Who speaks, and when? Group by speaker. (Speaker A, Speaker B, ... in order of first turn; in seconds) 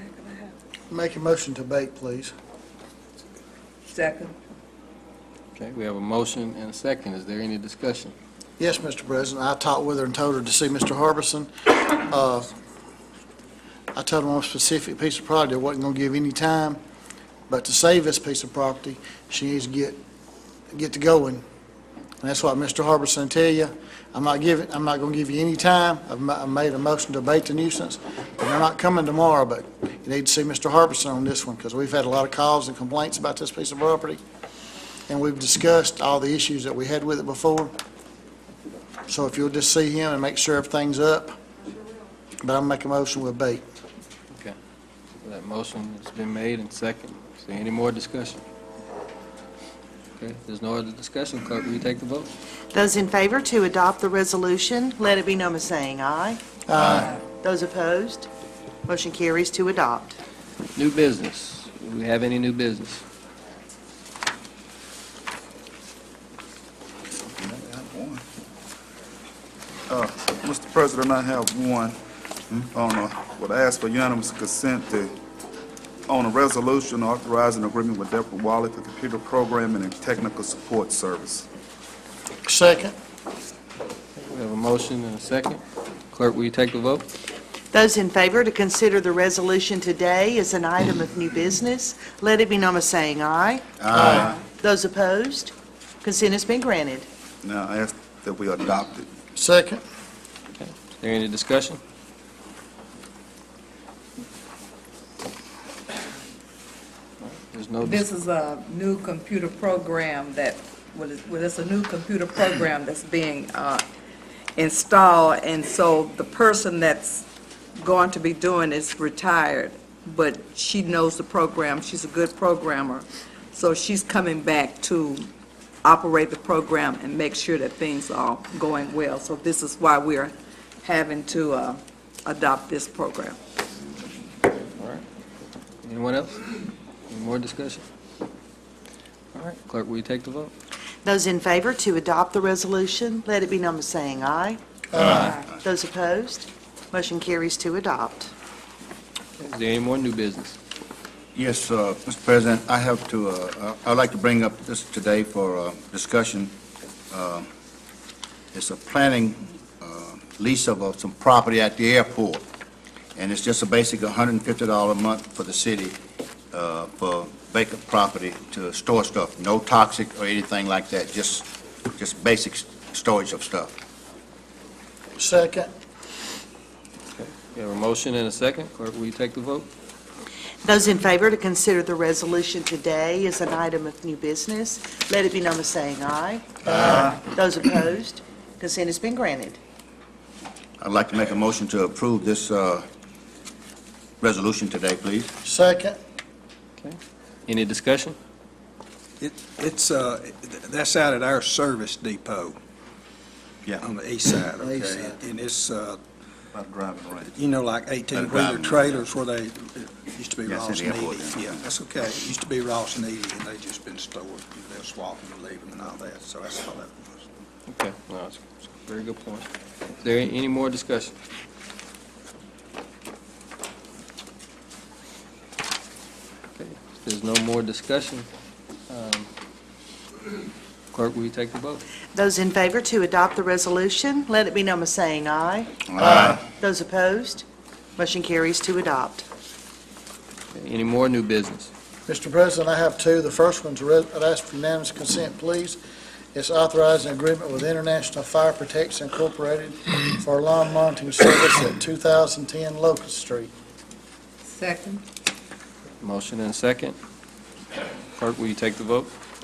Speaker A: 0.9-2.3, 8.6-12.5, 13.9-16.8, 17.5-20.0, 20.7-21.4, 22.2-34.2, 35.1-37.7, 39.1-41.4, 42.4-43.6, 56.7-57.1, 82.4-82.9, 99.3-99.8, 144.9-145.3, 175.2-175.7, 195.4-196.0, 204.6-205.0, 236.0-236.4, 242.1-245.8, 246.3-253.5
Speaker B: 3.9-4.3, 107.8-113.8, 114.6-117.2, 117.8-125.3, 125.8-133.4, 254.4-255.0
Speaker C: 5.5-8.1, 45.2-48.4, 50.2-52.3, 60.7-63.0, 84.2-87.0, 100.5-101.8, 107.2-108.0, 134.8-135.0, 135.8-136.5, 137.1-137.8, 139.3-140.5, 149.4-150.6, 177.2-179.7, 196.8-198.2, 217.7-221.1, 226.6-228.3, 228.9-229.3, 230.9-231.8, 240.5-241.7, 256.0-256.9, 258.1-259.1
Speaker D: 52.7-58.3, 58.9-60.2, 87.7-97.1, 141.0-144.6, 145.2-148.3, 180.6-189.6, 232.1-237.4, 238.0-239.2
Speaker E: 67.4-68.2, 69.9-72.0, 72.5-75.1, 76.1-81.5, 97.4-99.0, 206.6-207.2
Speaker F: 93.8-94.4, 151.3-156.5, 157.1-157.5, 158.5-162.4, 163.2-166.0, 166.5-173.7, 190.8-192.8, 194.2-195.3, 208.2-208.6, 210.5-211.6
Speaker G: 199.2-202.6, 203.7-206.0, 207.3-217.2